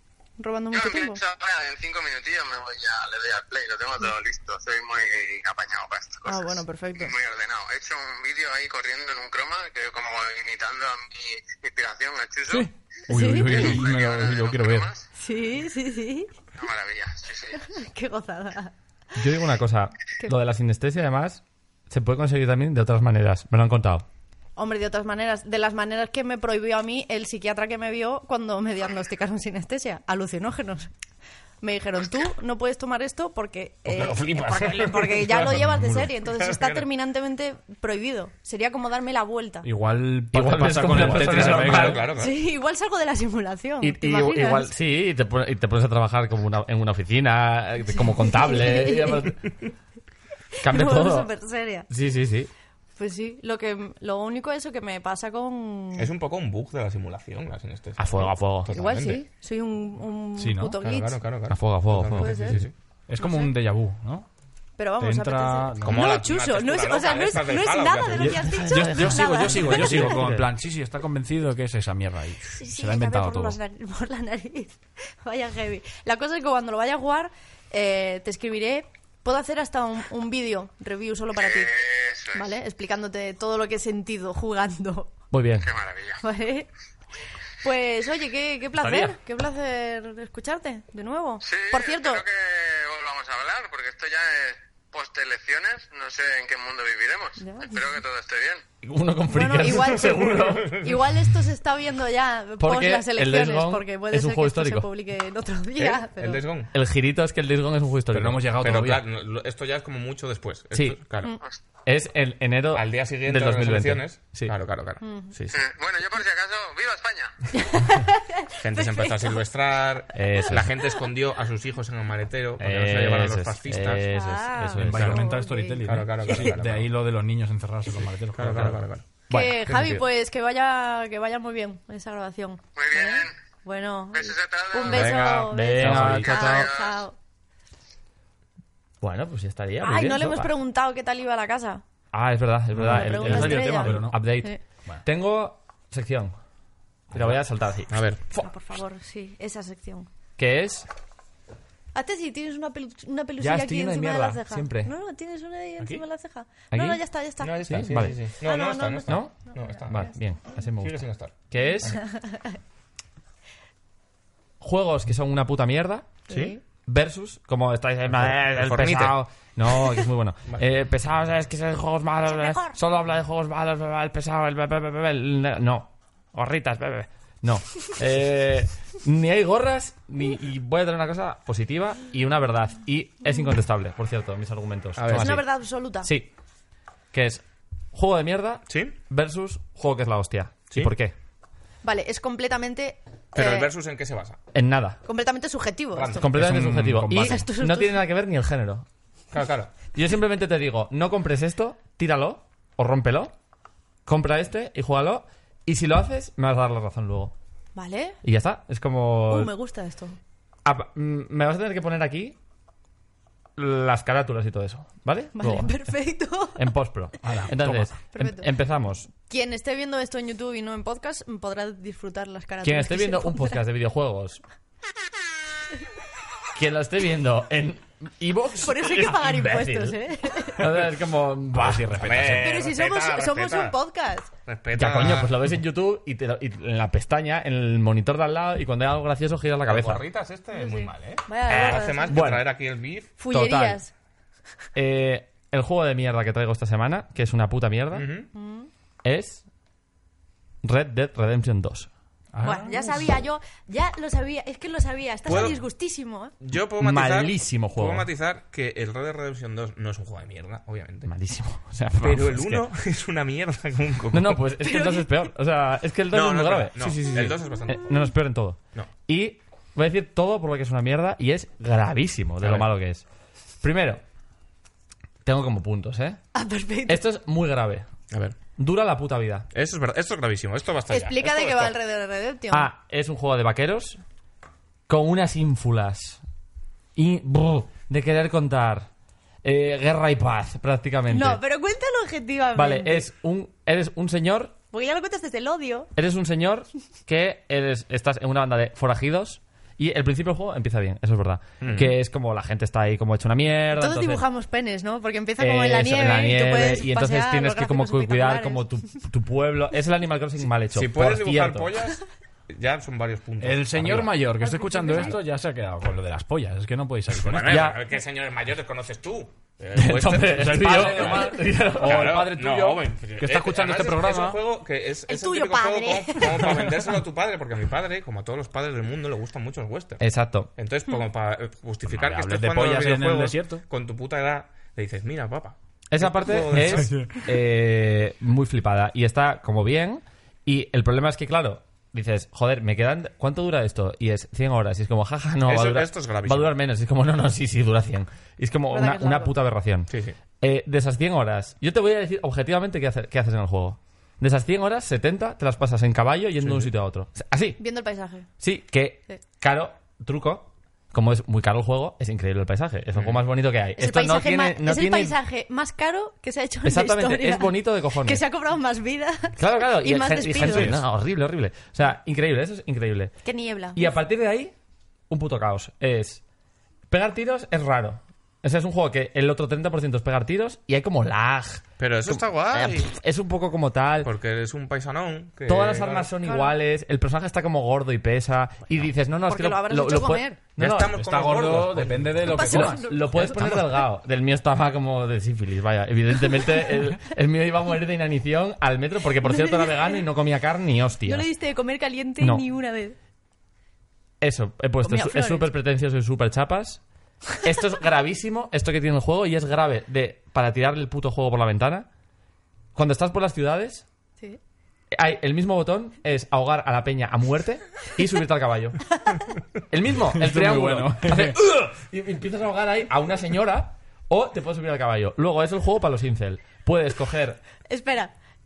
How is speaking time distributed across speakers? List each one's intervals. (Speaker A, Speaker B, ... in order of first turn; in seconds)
Speaker A: 0.4-1.2, 6.2-7.1, 13.1-13.7, 15.1-16.3, 17.6-18.7, 24.6-30.9, 31.6-39.7, 42.1-44.7, 47.9-49.3, 50.6-51.9, 53.0-56.1, 58.7-61.2, 62.2-62.6, 63.2-63.5, 64.8-70.2, 72.4-81.8, 82.3-85.1, 86.2-86.7, 87.6-92.2, 97.4-97.9, 99.3-106.4, 115.0-115.3, 117.5-119.4, 124.1-126.4, 129.3-137.2, 139.8-141.8, 142.8-144.6, 148.4-150.1, 151.9-157.6, 158.4-160.1, 161.6-162.5, 166.3-166.6, 172.2-172.8, 185.1-186.1, 191.8-193.7, 195.0-196.3, 197.2-198.0, 207.7-208.2, 209.3-210.2, 215.3-216.7, 218.1-218.5, 219.3-223.6, 228.6-230.6, 232.4-234.3, 240.5-242.2, 243.2-243.9, 248.3-248.7, 252.4-256.3, 264.6-265.2, 276.3-277.0, 280.9-282.7, 291.1-293.1, 294.7-295.9, 303.7-308.6, 314.4-315.2, 325.1-326.8, 348.7-349.3, 357.6-358.3, 363.8-370.7, 373.2-373.9, 386.2-386.5, 389.3-390.4, 392.2-393.3, 399.2-400.0, 401.0-402.9, 404.8-405.5, 427.6-428.1
Speaker B: 0.7-12.7, 13.5-15.0, 16.6-17.6, 81.4-82.5, 85.6-86.2, 91.4-98.6, 115.5-117.4, 132.8-133.3, 134.1-135.2, 136.2-137.0
Speaker C: 12.5-14.9, 39.6-42.0, 60.4-60.8, 63.1-64.2, 65.0-66.1, 68.2-73.6, 108.1-109.0, 124.8-128.8, 135.0-136.5, 142.7-144.2, 196.3-197.3, 217.2-217.9, 231.5-232.6, 252.3-253.0, 313.4-317.6, 320.3-324.4, 331.9-333.6, 336.5-337.2, 390.9-393.6, 420.1-421.4
Speaker D: 19.2-24.1, 35.5-36.1, 40.3-42.0, 43.8-49.5, 50.6-51.3, 51.9-52.5, 58.0-58.7, 61.5-62.6, 68.5-70.5, 85.3-85.7, 88.8-89.2, 98.8-100.9, 102.6-104.9, 106.7-108.4, 110.7-111.0, 111.8-114.5, 120.1-120.7, 122.6-125.2, 129.3-129.9, 134.9-136.7, 139.0-140.5, 142.1-146.3, 147.1-148.0, 150.4-150.9, 153.4-154.9, 156.7-157.0, 157.6-158.2, 159.1-162.0, 164.6-166.2, 166.8-186.3, 187.1-191.1, 194.5-195.0, 196.2-198.8, 199.9-203.3, 204.1-207.3, 208.2-209.5, 210.6-212.3, 213.6-215.8, 216.5-219.1, 222.6-224.4, 226.5-230.0, 230.6-232.4, 234.7-240.0, 241.5-242.5, 243.3-243.8, 244.7-248.1, 249.0-249.4, 250.6-251.9, 256.8-258.1, 261.0-262.7, 264.1-273.0, 273.6-274.0, 275.2-276.2, 276.9-277.9, 278.6-279.5, 282.5-284.0, 284.9-286.2, 286.9-288.9, 289.4-291.4, 292.5-294.5, 295.9-304.2, 305.4-311.8, 317.4-317.8, 319.7-322.2, 330.0-330.5, 335.9-357.6, 358.4-365.1, 366.6-368.2, 369.4-373.1, 373.7-374.5, 375.1-376.2, 376.9-384.1, 385.5-390.9, 392.4-401.3, 402.2-402.4, 404.2-406.8, 407.4-411.9, 412.7-413.8, 414.9-418.8, 419.7-427.4
Speaker E: 33.9-36.9, 40.9-42.3, 56.0-59.2, 60.8-62.7, 65.8-68.5, 100.1-100.6, 105.8-106.7, 108.6-111.3, 112.7-115.6, 118.6-124.0, 124.9-125.2, 125.8-126.9, 128.3-129.1, 135.1-135.4, 147.1-147.4, 147.9-148.4, 157.4-160.1, 160.8-162.0, 168.1-169.2, 185.0-185.3, 188.7-188.9, 193.3-194.4, 195.9-196.5, 199.3-199.7, 231.9-233.8, 234.4-235.3, 239.7-243.1, 247.9-248.3, 255.2-255.6, 256.4-261.1, 262.0-264.4, 266.1-267.9, 272.4-272.7, 278.1-278.4, 279.5-281.8, 301.6-301.9, 310.7-314.2, 317.1-330.0, 330.6-337.1, 345.4-346.5, 349.9-350.1, 356.4-356.7, 362.9-363.2, 370.4-370.8, 381.8-382.9, 384.0-386.1, 390.6-392.4